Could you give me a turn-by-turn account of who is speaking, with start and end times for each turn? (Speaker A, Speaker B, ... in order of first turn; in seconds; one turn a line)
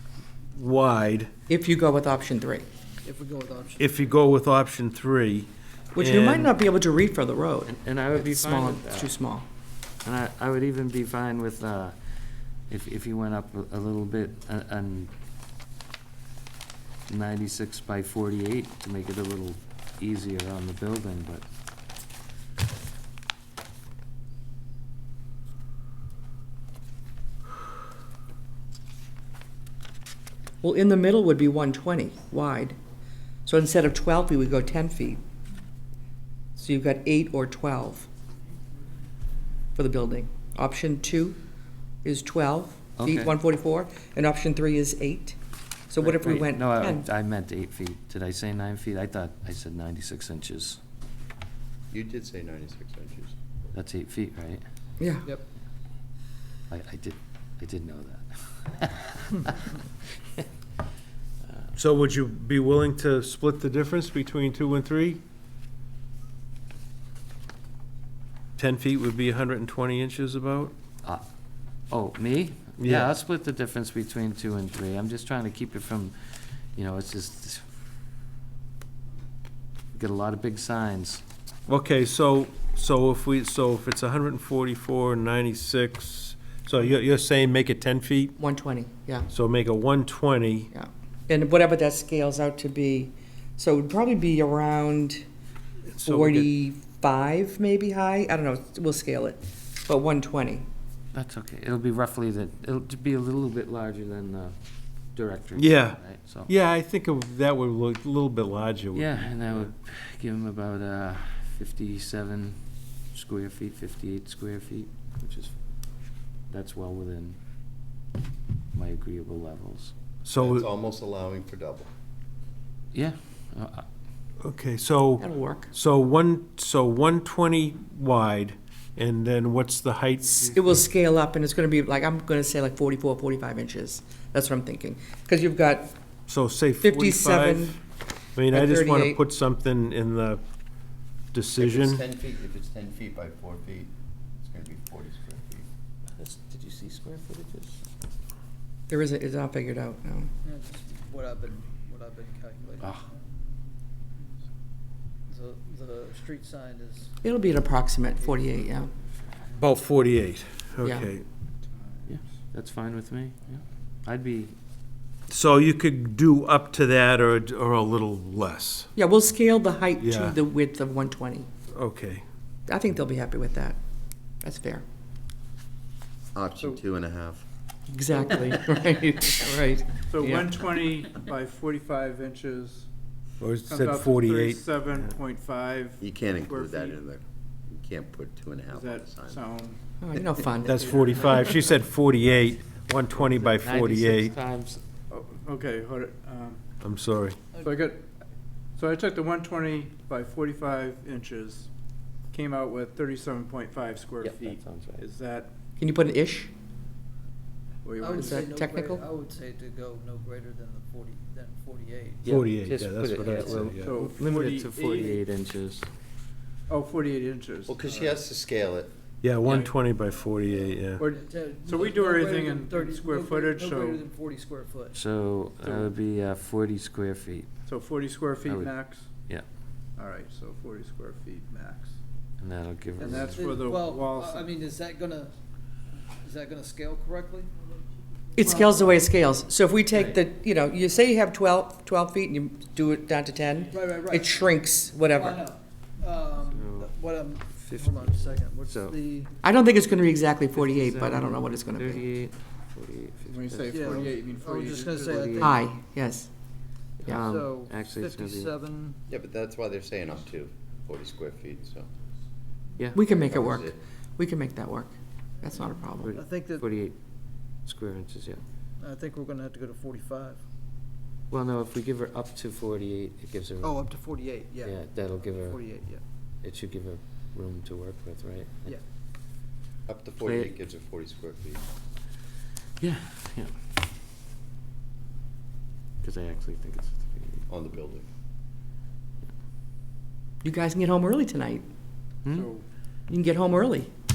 Speaker A: 0.6-1.3
Speaker B: 1.5-2.7
Speaker C: 3.0-3.9
Speaker A: 3.8-6.5
Speaker B: 6.0-9.5
Speaker D: 7.7-9.2
Speaker D: 10.0-12.0
Speaker D: 12.7-15.1
Speaker D: 17.1-21.4
Speaker B: 30.6-32.8
Speaker B: 33.5-35.2
Speaker B: 36.6-38.1
Speaker B: 39.8-41.4
Speaker B: 42.0-45.4
Speaker D: 43.0-43.4
Speaker B: 45.9-47.1
Speaker D: 46.0-50.8
Speaker E: 51.9-53.4
Speaker D: 53.7-54.6
Speaker B: 55.0-55.3
Speaker D: 56.7-59.8
Speaker A: 61.8-65.2
Speaker A: 68.6-70.7
Speaker D: 71.9-76.2
Speaker A: 72.8-73.1
Speaker D: 76.8-77.7
Speaker D: 80.0-81.2
Speaker A: 81.7-88.4
Speaker B: 88.4-89.3
Speaker A: 89.3-90.7
Speaker B: 90.7-95.3
Speaker A: 95.9-96.5
Speaker B: 96.0-100.7
Speaker D: 101.1-104.6
Speaker D: 105.1-106.5
Speaker A: 105.6-109.2
Speaker D: 108.9-112.6
Speaker D: 113.1-117.4
Speaker D: 118.7-119.9
Speaker A: 120.2-120.7
Speaker E: 120.4-121.9
Speaker D: 122.9-123.8
Speaker A: 124.4-130.7
Speaker B: 125.2-125.7
Speaker B: 130.2-135.9
Speaker A: 136.3-137.8
Speaker B: 136.8-137.8
Speaker A: 138.4-140.4
Speaker B: 138.5-139.2
Speaker A: 141.3-142.1
Speaker E: 141.6-145.7
Speaker D: 146.2-147.8
Speaker B: 148.9-150.3
Speaker C: 150.4-153.4
Speaker C: 155.3-157.1
Speaker B: 157.2-158.9
Speaker A: 159.6-161.3
Speaker B: 160.8-161.1
Speaker D: 162.1-164.5
Speaker A: 165.3-168.9
Speaker B: 169.0-171.5
Speaker A: 170.0-170.4
Speaker A: 171.7-172.2
Speaker B: 172.7-173.8
Speaker B: 174.4-174.8
Speaker E: 176.3-177.4
Speaker B: 177.9-180.7
Speaker F: 180.1-182.9
Speaker A: 183.4-185.1
Speaker F: 183.7-187.0
Speaker E: 186.0-189.4
Speaker F: 188.7-189.8
Speaker B: 190.0-190.8
Speaker F: 190.6-191.7
Speaker A: 190.6-194.3
Speaker D: 193.2-194.8
Speaker F: 195.1-196.6
Speaker A: 196.8-197.4
Speaker C: 197.5-197.8
Speaker F: 197.6-198.1
Speaker F: 198.8-201.7
Speaker F: 202.3-205.5
Speaker D: 204.4-205.1
Speaker B: 205.8-206.5
Speaker F: 207.8-208.5
Speaker C: 208.0-212.3
Speaker B: 208.1-209.1
Speaker D: 212.2-215.9
Speaker A: 212.3-213.9
Speaker C: 213.2-213.7
Speaker F: 213.8-215.2
Speaker F: 216.7-218.2
Speaker E: 217.7-218.9
Speaker A: 219.2-221.1
Speaker C: 219.5-225.0
Speaker F: 221.0-224.1
Speaker D: 224.9-227.5
Speaker F: 225.6-225.9
Speaker F: 227.7-229.3
Speaker D: 228.4-229.4
Speaker F: 230.0-232.0
Speaker D: 232.4-233.6
Speaker F: 233.0-234.6
Speaker C: 233.2-235.3
Speaker C: 236.2-237.5
Speaker B: 238.3-245.4
Speaker C: 238.4-238.7
Speaker C: 243.7-244.5
Speaker C: 245.1-249.3
Speaker D: 246.4-246.9
Speaker D: 247.5-249.0
Speaker B: 249.4-252.1
Speaker D: 250.5-254.3
Speaker F: 253.3-255.4
Speaker C: 253.7-255.6
Speaker D: 255.0-255.6
Speaker B: 255.4-256.3
Speaker D: 257.0-258.5
Speaker C: 257.1-259.0
Speaker E: 259.1-261.9
Speaker B: 262.9-266.2
Speaker E: 263.1-263.8
Speaker D: 266.0-267.0
Speaker C: 266.1-266.6
Speaker D: 267.6-268.4
Speaker C: 268.8-270.4
Speaker D: 271.3-273.8
Speaker C: 273.6-276.0
Speaker D: 274.6-275.7
Speaker D: 276.4-278.8
Speaker E: 279.9-281.6
Speaker D: 280.2-280.5
Speaker D: 282.8-283.5
Speaker D: 286.0-287.5
Speaker E: 287.5-288.1
Speaker B: 290.4-291.6
Speaker D: 292.2-292.5
Speaker F: 292.3-292.6
Speaker B: 293.1-293.9